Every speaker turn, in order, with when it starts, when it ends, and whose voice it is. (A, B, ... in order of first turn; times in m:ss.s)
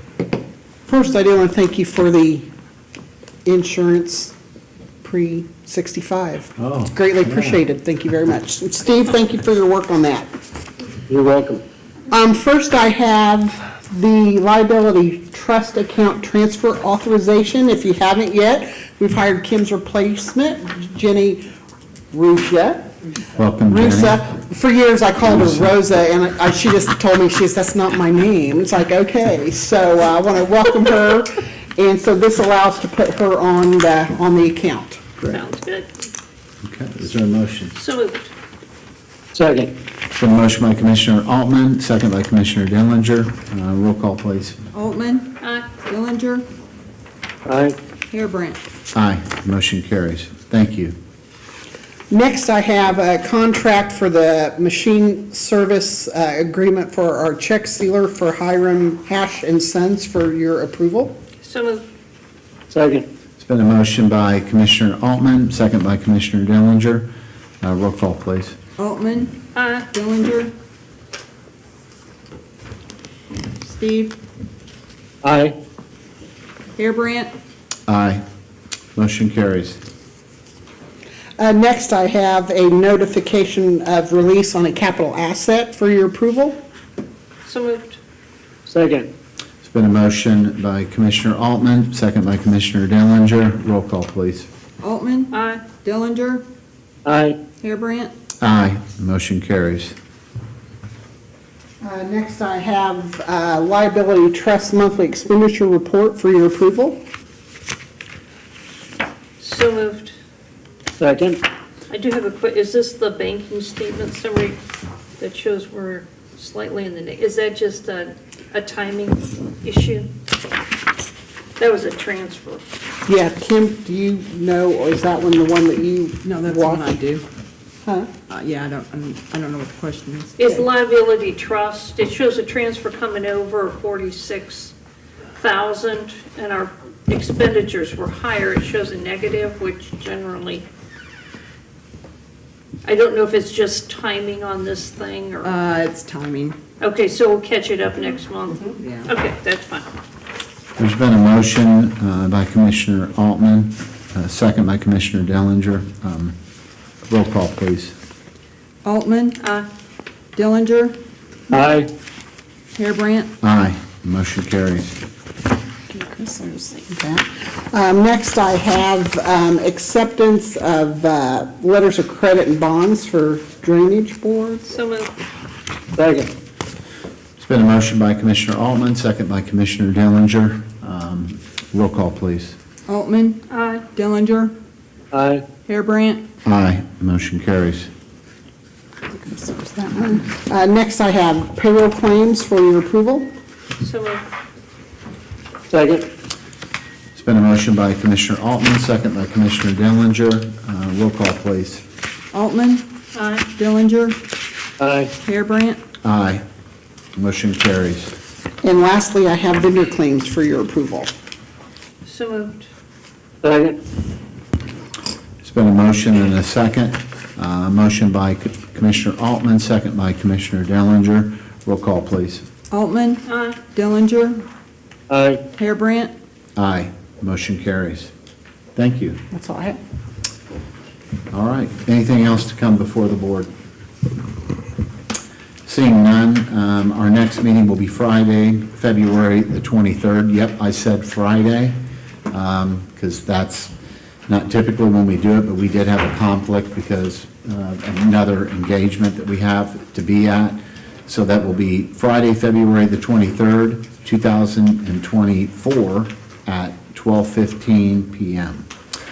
0:00.9-0:02.5 A
0:03.4-0:04.3 A
0:05.0-0:10.3 A
0:06.6-0:07.6 B
0:11.1-0:11.6 C
0:12.1-0:21.4 A
0:22.1-0:22.9 A
0:23.4-0:24.2 B
0:23.7-0:35.4 A
0:25.2-0:25.7 B
0:35.2-0:35.9 D
0:36.6-0:37.7 B
0:37.7-0:38.3 D
0:39.3-0:39.7 C
0:40.1-0:44.6 B
0:44.7-0:46.4 E
0:45.4-0:45.7 D
0:47.4-0:47.7 C
0:48.1-0:48.6 E
0:48.9-0:51.0 B
0:52.1-1:01.2 A
1:01.4-1:01.8 D
1:02.7-1:03.0 C
1:03.4-1:07.1 B
1:07.6-1:08.6 B
1:08.8-1:09.4 E
1:09.5-1:09.9 D
1:09.9-1:10.5 E
1:13.6-1:14.2 E
1:15.2-1:15.5 C
1:16.8-1:17.3 E
1:17.9-1:18.2 B
1:19.0-1:19.8 B
1:21.4-1:26.6 A
1:27.4-1:28.0 D
1:28.7-1:29.1 C
1:29.6-1:34.5 B
1:34.8-1:36.4 E
1:35.3-1:35.6 D
1:37.0-1:37.4 C
1:37.6-1:38.1 E
1:38.4-1:39.9 B
1:41.8-1:47.0 A
1:49.4-1:50.1 D
1:51.0-1:51.4 C
1:51.9-1:54.6 D
1:55.2-2:00.1 D
2:01.6-2:02.6 D
2:03.0-2:06.9 A
2:06.2-2:07.2 E
2:07.8-2:08.1 A
2:08.3-2:10.6 E
2:10.4-2:14.7 D
2:15.4-2:20.6 D
2:22.8-2:25.5 D
2:25.4-2:26.6 E
2:26.8-2:29.9 D
2:28.8-2:29.1 E
2:30.8-2:36.3 B
2:37.1-2:37.9 B
2:38.8-2:39.4 E
2:39.4-2:39.7 D
2:40.3-2:41.0 E
2:41.5-2:41.9 C
2:42.7-2:43.3 E
2:43.4-2:44.9 B
2:45.9-2:54.7 A
2:54.6-2:55.1 D
2:56.0-2:56.3 C
2:57.4-3:02.6 B
3:02.9-3:04.5 E
3:03.5-3:03.8 D
3:05.1-3:05.4 C
3:05.6-3:06.2 E
3:06.4-3:07.9 B
3:09.1-3:13.3 A
3:13.8-3:14.2 D
3:15.7-3:16.0 C
3:17.1-3:21.8 B
3:22.3-3:22.8 E
3:23.1-3:23.5 D
3:23.5-3:24.2 E
3:24.8-3:25.1 C
3:25.2-3:25.8 E
3:26.0-3:26.4 B
3:27.2-3:28.1 B
3:28.6-3:31.1 A
3:32.0-3:32.7 D
3:33.4-3:33.8 C
3:35.4-3:42.4 B
3:42.7-3:44.4 E
3:43.2-3:43.6 D
3:45.1-3:45.4 C
3:45.6-3:46.1 E
3:46.6-3:48.1 B
3:48.7-3:49.2 B
3:49.3-3:49.8 A
3:51.3-3:53.5 B
3:55.6-4:01.8 B
4:02.3-4:03.7 B
4:04.3-4:18.7 B